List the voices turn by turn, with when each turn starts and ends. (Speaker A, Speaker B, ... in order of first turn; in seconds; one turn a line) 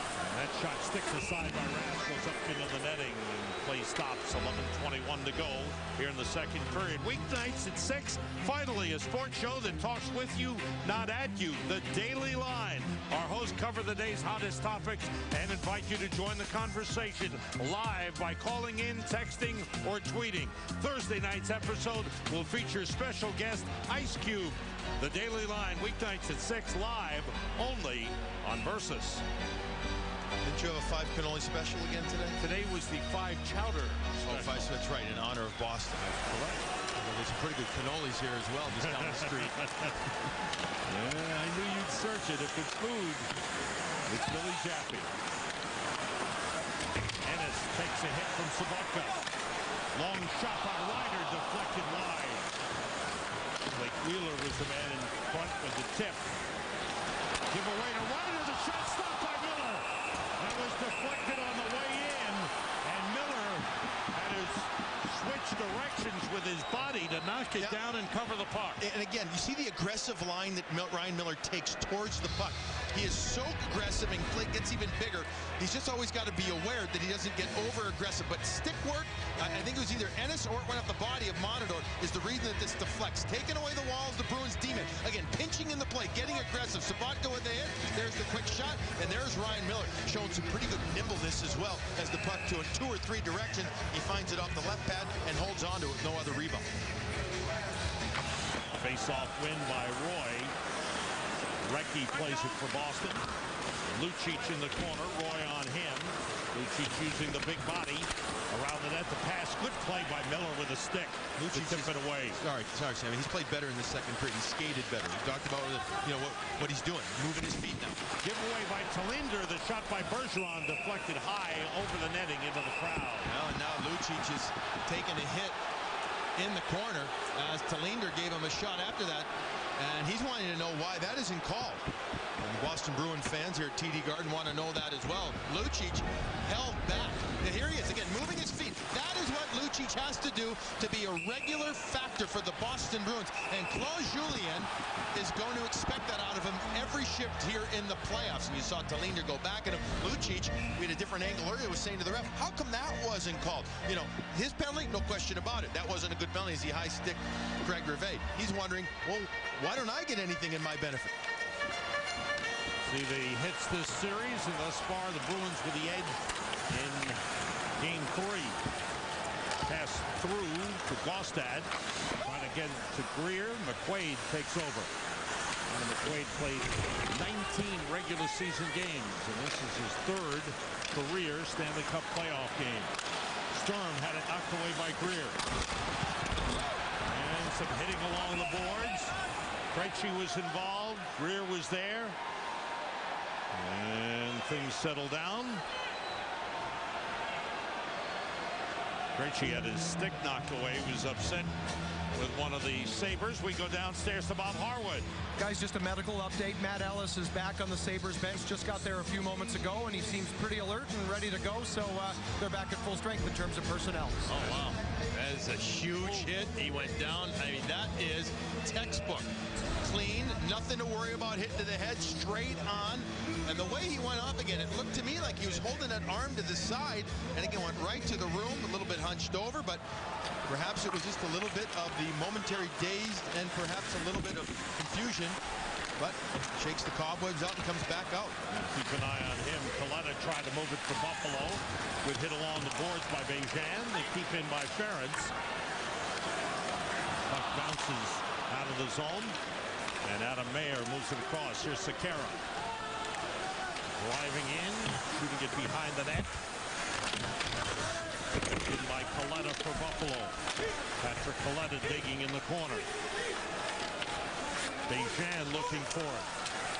Speaker A: 0.2-29.2
Speaker B: 30.4-32.4
Speaker A: 32.4-34.7
Speaker B: 34.2-36.0
Speaker A: 36.0-36.6
Speaker B: 37.0-39.5
Speaker A: 38.7-39.9
Speaker A: 40.9-43.3
Speaker A: 44.1-45.1
Speaker A: 47.2-49.2
Speaker A: 49.9-52.5
Speaker A: 53.7-56.3
Speaker A: 57.5-59.9
Speaker A: 60.4-68.8
Speaker B: 68.8-96.7
Speaker A: 98.7-100.5
Speaker A: 101.6-103.2
Speaker A: 103.9-112.4
Speaker B: 111.4-118.0
Speaker A: 118.2-123.3
Speaker B: 123.3-125.6
Speaker B: 126.4-131.9
Speaker B: 132.4-161.2
Speaker A: 162.8-167.2
Speaker A: 167.8-168.6
Speaker A: 169.7-171.7
Speaker A: 172.2-174.9
Speaker A: 175.7-182.9
Speaker A: 183.5-185.4
Speaker A: 187.1-189.2
Speaker A: 189.7-192.2
Speaker A: 193.5-195.6
Speaker A: 199.2-201.5
Speaker A: 202.2-205.1
Speaker C: 205.4-214.3
Speaker B: 214.3-229.8
Speaker A: 216.0-216.3
Speaker B: 230.5-235.4
Speaker B: 236.0-238.4
Speaker A: 238.5-245.3
Speaker A: 247.3-249.4
Speaker A: 250.0-252.4
Speaker A: 254.0-256.4
Speaker A: 258.6-260.4
Speaker A: 261.0-262.9
Speaker A: 264.9-266.3